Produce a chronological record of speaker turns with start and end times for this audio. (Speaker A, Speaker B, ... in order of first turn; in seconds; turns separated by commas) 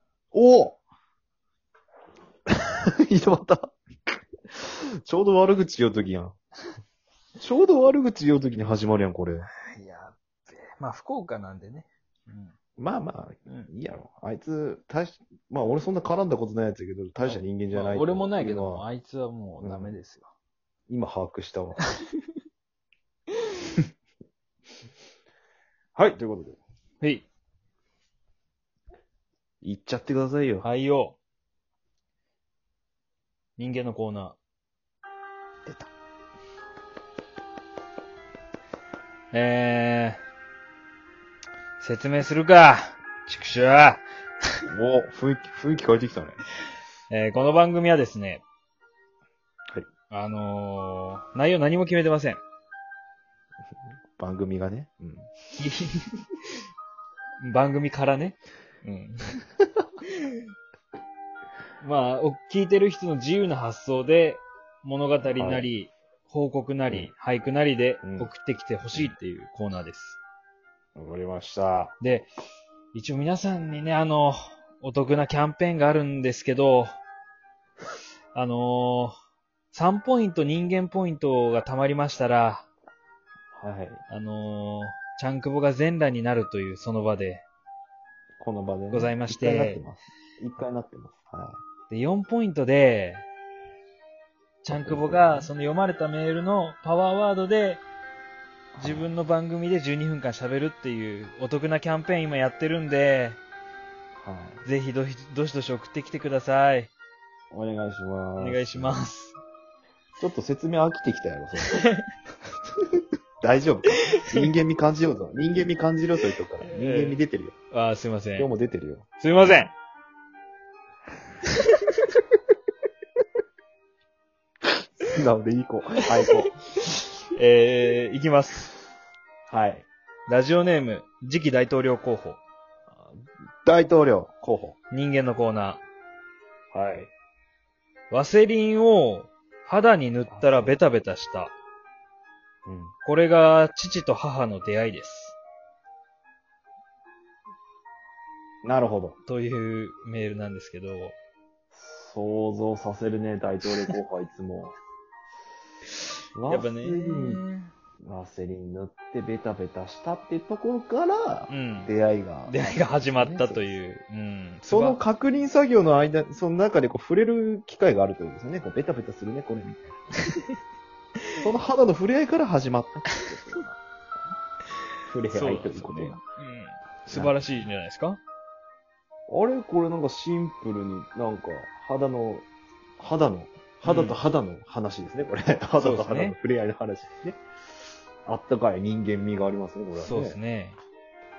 Speaker A: 0.3-0.8, Speaker A: 2.6-3.7, Speaker A: 4.5-6.4, Speaker A: 7.4-9.5, Speaker B: 9.7-12.5, Speaker A: 12.8-18.9, Speaker B: 17.2-20.3, Speaker A: 19.6-20.0, Speaker A: 20.9-21.8, Speaker A: 26.0-26.6, Speaker B: 27.0-27.3, Speaker A: 29.6-30.7, Speaker B: 30.6-31.2, Speaker B: 33.6-34.4, Speaker B: 39.3-40.2, Speaker B: 41.8-44.0, Speaker A: 44.7-46.4, Speaker B: 47.1-48.4, Speaker B: 50.1-52.4, Speaker A: 54.2-55.3, Speaker B: 55.6-56.2, Speaker B: 57.4-59.4, Speaker B: 60.1-60.4, Speaker B: 61.8-70.2, Speaker A: 65.3-65.7, Speaker A: 68.0-68.3, Speaker A: 71.0-71.9, Speaker B: 72.0-72.3, Speaker B: 72.9-77.0, Speaker B: 78.3-79.1, Speaker B: 79.7-82.7, Speaker A: 83.5-84.0, Speaker B: 84.1-87.4, Speaker A: 88.4-91.6, Speaker B: 88.9-89.8, Speaker B: 91.9-93.2, Speaker B: 94.6-97.8, Speaker A: 94.7-95.5, Speaker A: 98.8-99.1, Speaker B: 98.8-103.4, Speaker A: 104.2-104.6, Speaker B: 104.7-106.9, Speaker A: 107.5-109.1, Speaker B: 108.4-109.4, Speaker A: 110.2-111.8, Speaker B: 111.7-112.1, Speaker A: 113.4-117.6, Speaker B: 114.0-114.4, Speaker B: 116.6-117.2, Speaker B: 117.7-118.5, Speaker A: 118.4-119.6, Speaker B: 119.2-119.7, Speaker B: 121.7-122.1, Speaker A: 125.0-126.5, Speaker B: 126.2-128.7, Speaker A: 129.5-129.9, Speaker B: 130.3-132.4, Speaker A: 133.7-134.8, Speaker B: 134.9-135.8, Speaker A: 136.7-137.1, Speaker B: 138.1-141.5, Speaker A: 140.3-140.8, Speaker A: 142.7-142.9, Speaker B: 143.1-145.4, Speaker A: 148.6-149.2, Speaker B: 149.3-151.2, Speaker A: 151.7-154.8, Speaker A: 156.3-157.4, Speaker B: 156.5-157.7, Speaker A: 158.0-162.6, Speaker B: 161.5-161.9, Speaker B: 162.5-165.0, Speaker A: 163.2-163.7, Speaker A: 164.7-170.0, Speaker A: 171.4-173.8, Speaker A: 175.1-176.2, Speaker B: 175.3-178.2, Speaker A: 177.1-177.4, Speaker A: 179.3-182.5, Speaker A: 183.0-187.4, Speaker B: 183.8-184.2, Speaker B: 185.8-186.4, Speaker A: 188.3-190.4, Speaker B: 189.9-190.8